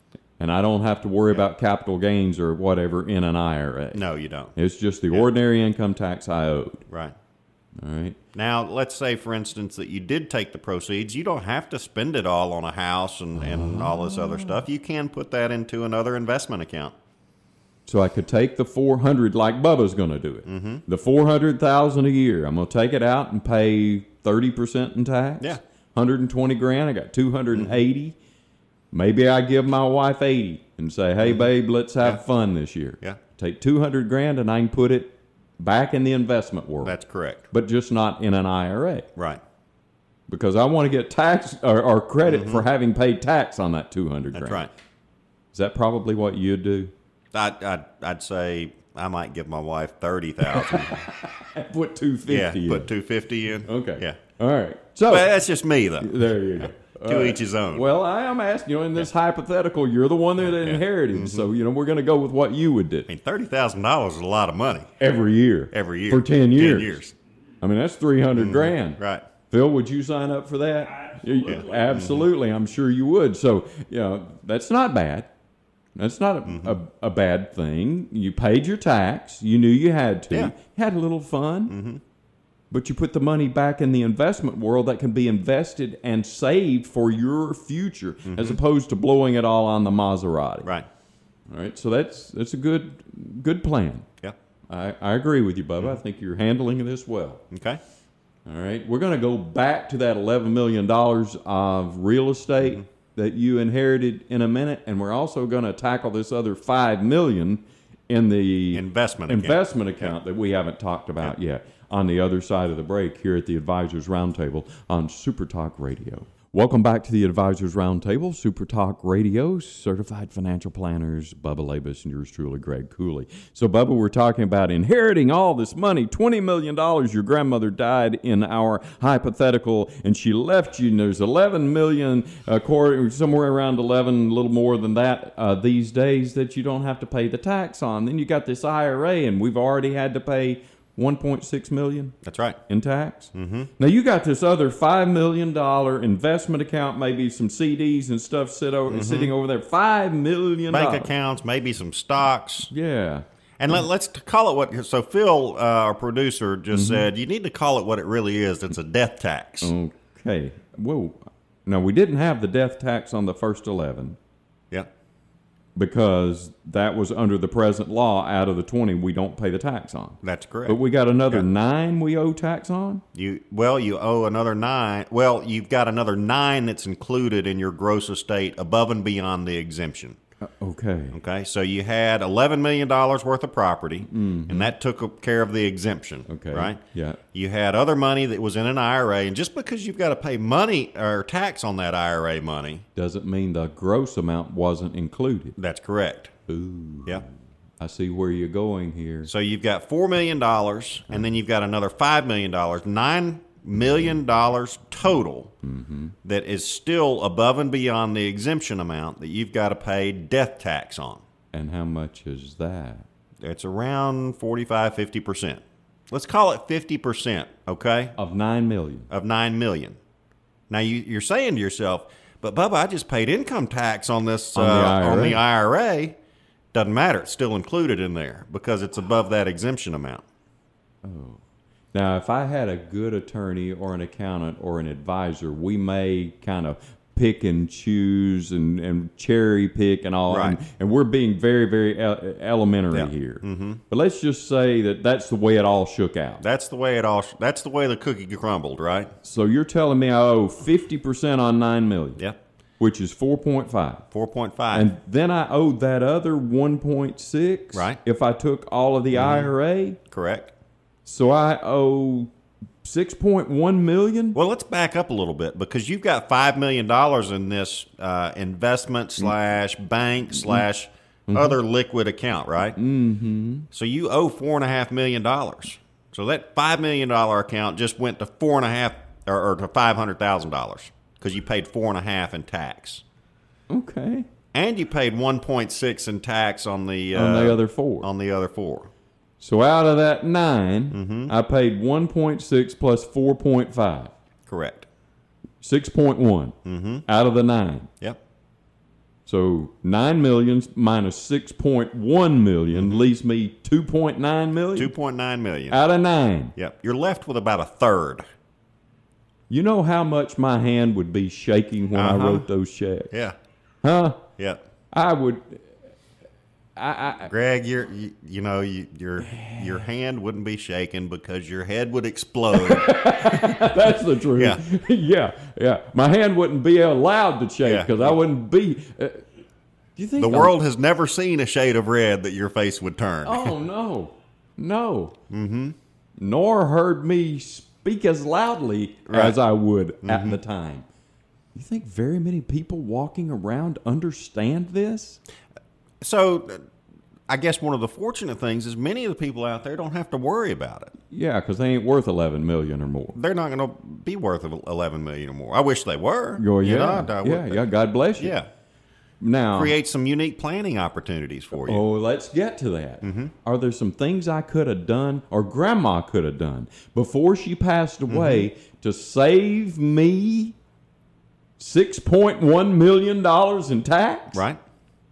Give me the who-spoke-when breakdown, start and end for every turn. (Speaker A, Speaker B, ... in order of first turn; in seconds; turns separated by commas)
Speaker A: 0.4-4.0, Speaker B: 3.9-4.5, Speaker A: 4.5-6.8, Speaker B: 6.9-7.1, Speaker A: 7.8-8.2, Speaker B: 8.3-16.9, Speaker A: 13.4-14.6, Speaker A: 17.9-28.1, Speaker B: 20.5-20.8, Speaker A: 28.9-37.0, Speaker B: 31.2-31.5, Speaker B: 36.8-37.5, Speaker A: 37.5-39.1, Speaker A: 40.3-44.7, Speaker B: 42.2-42.6, Speaker B: 44.3-44.7, Speaker A: 45.5-46.9, Speaker B: 47.3-51.0, Speaker A: 50.4-52.9, Speaker B: 52.3-54.2, Speaker A: 53.6-55.4, Speaker B: 55.1-57.9, Speaker A: 56.0-63.1, Speaker B: 60.5-61.5, Speaker B: 63.1-64.9, Speaker A: 65.0-67.0, Speaker B: 65.7-67.1, Speaker A: 67.6-75.3, Speaker B: 68.3-69.3, Speaker B: 71.5-72.3, Speaker A: 76.0-81.8, Speaker B: 76.5-76.8, Speaker B: 81.7-82.0, Speaker A: 82.7-90.7, Speaker B: 88.2-88.6, Speaker A: 91.5-94.1, Speaker A: 94.7-97.4, Speaker B: 97.5-97.8, Speaker A: 98.5-142.1, Speaker B: 108.7-110.1, Speaker B: 142.2-142.6, Speaker A: 142.7-151.1, Speaker B: 143.3-143.7, Speaker B: 148.9-149.3, Speaker B: 150.7-152.7, Speaker A: 152.7-153.2, Speaker B: 153.6-159.7, Speaker A: 156.7-157.1, Speaker A: 159.6-164.2, Speaker A: 165.8-173.0, Speaker B: 170.2-171.4, Speaker B: 173.1-180.2, Speaker A: 180.4-181.1, Speaker B: 181.1-186.8, Speaker A: 184.1-184.7, Speaker A: 186.3-187.2, Speaker B: 187.3-192.8, Speaker A: 192.9-195.6, Speaker B: 195.6-196.3, Speaker A: 196.5-199.3, Speaker B: 199.3-205.5, Speaker A: 205.6-206.1, Speaker B: 206.2-211.2, Speaker A: 211.5-213.1, Speaker B: 213.4-218.1, Speaker A: 218.2-219.1, Speaker B: 219.1-220.0, Speaker B: 220.7-226.2, Speaker A: 224.5-225.4, Speaker B: 226.7-230.2, Speaker A: 231.0-231.4, Speaker A: 231.9-246.4, Speaker B: 240.3-240.6, Speaker B: 242.9-243.8, Speaker B: 246.4-249.1, Speaker A: 249.2-252.2, Speaker A: 252.8-254.0, Speaker B: 254.1-254.9, Speaker A: 254.7-260.0, Speaker B: 257.7-258.0, Speaker B: 259.1-259.5, Speaker B: 260.1-260.5, Speaker A: 261.0-262.3, Speaker A: 262.8-264.4, Speaker B: 264.3-272.8, Speaker A: 271.3-271.6, Speaker A: 272.8-273.6, Speaker B: 273.7-283.0, Speaker A: 283.7-284.3, Speaker B: 284.5-288.9, Speaker A: 287.1-288.1, Speaker A: 289.4-294.1, Speaker B: 290.9-291.3, Speaker B: 294.5-294.9, Speaker A: 295.6-297.9, Speaker B: 296.6-297.0, Speaker A: 299.2-304.9, Speaker B: 302.7-303.1, Speaker B: 304.7-305.8, Speaker A: 305.7-306.5, Speaker B: 306.6-308.2, Speaker A: 309.5-313.1, Speaker B: 311.9-312.5, Speaker B: 313.1-313.4, Speaker A: 313.8-314.2, Speaker A: 314.9-315.7, Speaker A: 316.8-317.3, Speaker B: 317.3-323.7, Speaker A: 319.2-319.8, Speaker A: 322.5-329.2, Speaker B: 324.3-324.6, Speaker B: 327.6-328.2, Speaker A: 329.9-330.5, Speaker B: 330.2-333.5, Speaker A: 333.2-335.1, Speaker B: 335.3-335.8, Speaker A: 336.2-340.9, Speaker B: 339.1-339.4, Speaker B: 340.0-340.4, Speaker A: 341.5-345.2, Speaker B: 346.0-346.6, Speaker B: 347.3-350.9, Speaker A: 351.1-353.2, Speaker B: 353.1-357.6, Speaker A: 356.4-358.4, Speaker B: 358.2-358.5, Speaker A: 359.2-359.7, Speaker B: 359.5-361.8, Speaker A: 361.6-370.5, Speaker B: 363.0-363.3, Speaker B: 368.1-368.5, Speaker A: 371.6-374.4, Speaker B: 374.3-374.6